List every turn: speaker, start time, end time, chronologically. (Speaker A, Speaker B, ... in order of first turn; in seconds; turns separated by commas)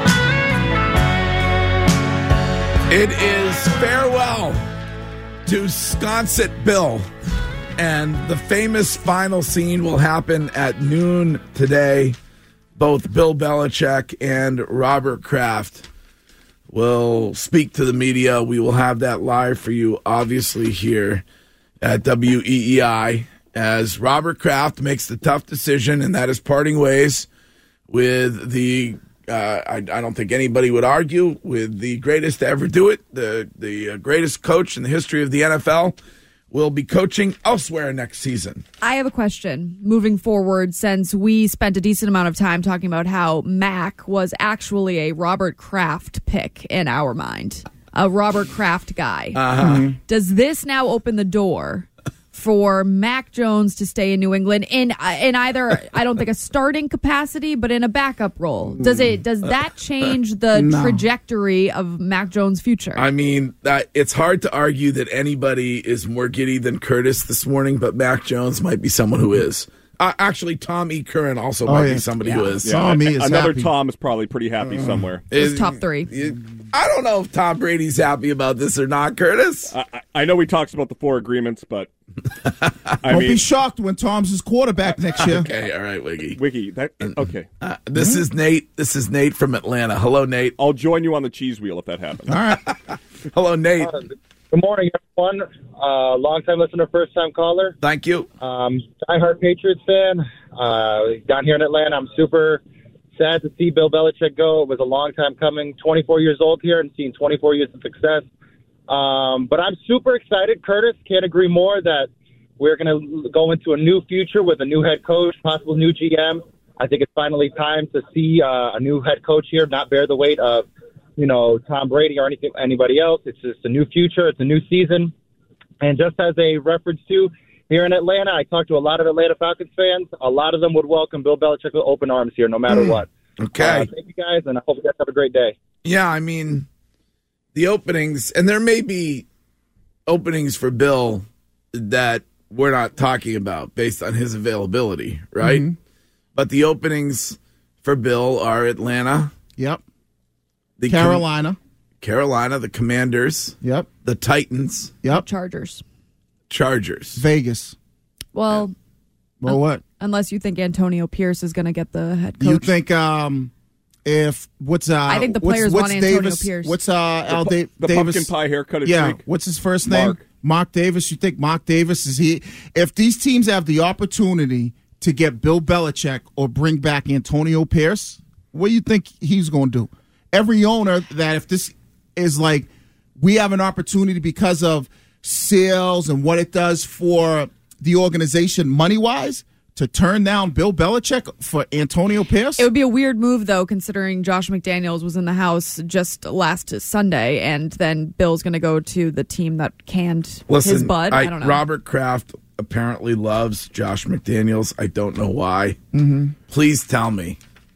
Speaker A: 2.9-4.6, Speaker A: 5.5-7.1, Speaker A: 7.8-12.2, Speaker A: 12.8-15.9, Speaker A: 16.7-21.2, Speaker A: 21.8-27.3, Speaker A: 27.9-36.0, Speaker A: 36.5-38.6, Speaker B: 38.8-49.4, Speaker A: 49.4-49.9, Speaker C: 49.6-49.9, Speaker B: 50.1-63.0, Speaker C: 60.5-61.0, Speaker A: 63.0-72.8, Speaker C: 71.7-73.7, Speaker D: 72.6-75.2, Speaker A: 74.7-79.7, Speaker B: 75.3-76.1, Speaker D: 79.7-81.9, Speaker A: 82.5-82.8, Speaker D: 83.0-83.4, Speaker C: 83.1-85.5, Speaker A: 85.2-86.4, Speaker D: 86.3-87.5, Speaker A: 87.6-90.6, Speaker C: 88.0-88.2, Speaker D: 90.6-92.4, Speaker C: 92.3-92.6, Speaker A: 92.5-93.9, Speaker E: 93.8-97.8, Speaker A: 97.8-98.3, Speaker E: 98.4-102.6, Speaker E: 103.1-108.3, Speaker E: 108.9-125.1, Speaker E: 125.8-135.6, Speaker A: 133.4-133.9, Speaker A: 135.8-136.7, Speaker A: 137.5-139.3, Speaker A: 140.1-145.7, Speaker C: 145.4-145.7, Speaker A: 146.3-149.3, Speaker C: 149.6-149.8, Speaker A: 150.8-151.2, Speaker C: 150.9-151.6, Speaker A: 152.0-155.0, Speaker C: 153.6-153.9, Speaker B: 155.1-155.8, Speaker A: 156.5-157.2, Speaker C: 157.2-157.8, Speaker B: 158.3-158.7, Speaker C: 159.4-159.8, Speaker B: 159.5-162.7, Speaker C: 162.4-163.5, Speaker C: 164.1-168.3, Speaker B: 165.1-166.8, Speaker D: 167.3-169.2, Speaker C: 168.8-192.7, Speaker D: 169.8-170.2, Speaker B: 192.6-201.6, Speaker A: 200.5-205.8, Speaker C: 205.9-206.3, Speaker A: 206.5-207.4